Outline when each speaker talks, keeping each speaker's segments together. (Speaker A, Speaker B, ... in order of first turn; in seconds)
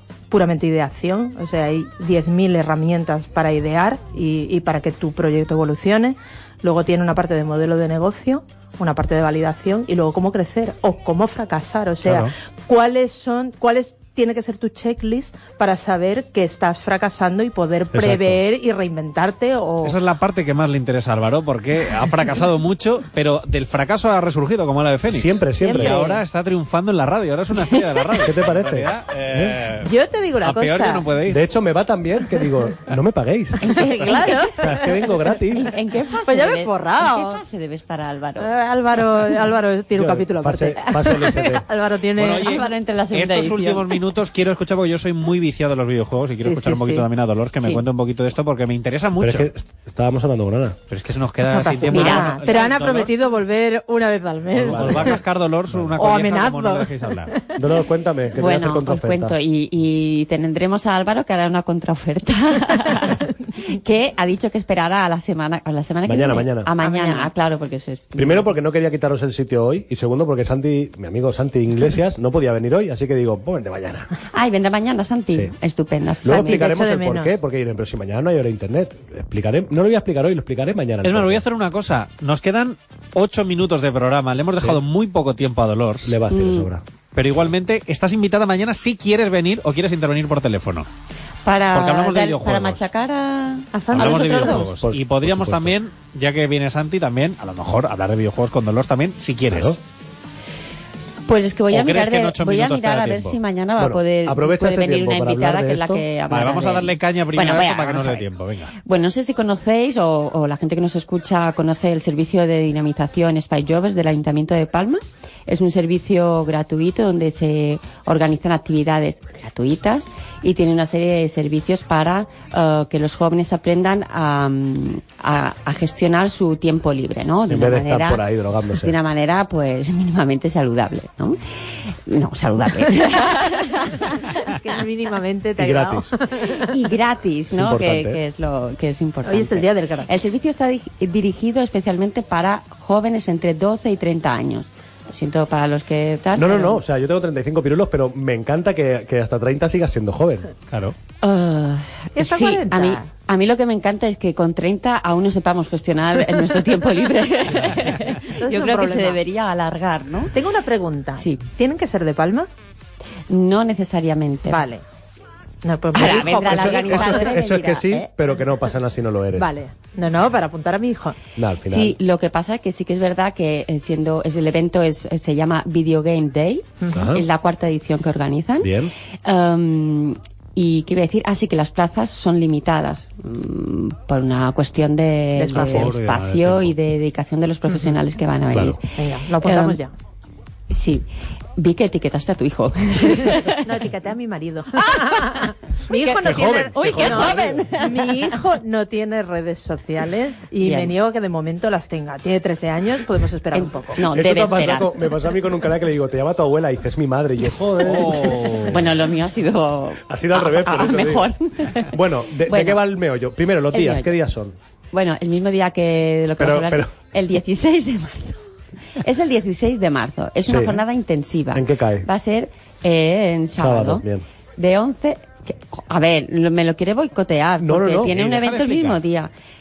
Speaker A: 0.3-20.0, 25.6-26.2, 29.8-31.1, 33.6-35.2, 36.2-37.4, 38.4-42.6, 46.4-47.1, 51.5-55.2, 56.0-57.5, 66.8-67.3, 76.2-77.3, 93.7-94.7, 133.8-136.7, 139.2-140.1, 152.2-153.1, 158.2-159.2, 160.3-162.5, 164.5-164.8, 165.6-167.4, 169.3-171.2, 176.8-177.1, 185.3-185.9, 188.9-189.9, 193.5-204.0
Speaker B: 12.0-12.3, 19.8-31.4, 42.1-49.5, 50.9-53.1, 54.6-57.4, 81.0-86.1, 87.1-90.9, 91.7-92.8, 93.9-99.8, 101.7-103.4, 106.3-108.7, 150.7-150.9, 185.5-186.7, 207.8-208.8, 228.0-229.0
Speaker C: 17.9-18.4, 25.1-26.0, 28.2-29.6, 31.2-33.8, 34.5-35.7, 40.0-41.6, 49.2-50.8, 54.5-56.0, 57.5-59.3, 66.0-66.7, 68.2-74.1, 76.2-81.4, 86.0-86.8, 94.8-95.7, 99.5-99.8, 103.8-106.0, 127.5-128.9, 135.6-136.1, 137.5-138.2, 146.3-150.5, 166.4-169.5, 171.3-171.9, 176.9-177.2, 178.6-178.9, 196.0-197.7, 204.0-208.9, 210.1-214.5, 216.4-216.9, 220.4-220.8, 221.5-222.1, 223.6-224.2, 227.6-228.1
Speaker D: 33.6-38.5, 42.4-44.0, 51.9-52.4, 58.3-68.5, 74.3-76.7, 86.3-86.7, 91.4-94.6, 101.3-108.2, 108.8-128.2, 128.8-134.1, 136.5-146.8, 151.2-160.3, 161.2-161.4, 163.3-164.6, 165.9-168.1, 171.7-178.7, 179.2-188.8, 189.4-189.8, 190.7-191.0, 191.6-193.7, 194.8-198.2, 200.6-200.9, 203.5-205.2, 208.2-211.9, 212.5-212.8, 213.7-214.2, 214.9-218.4, 218.9-224.0, 224.6-229.3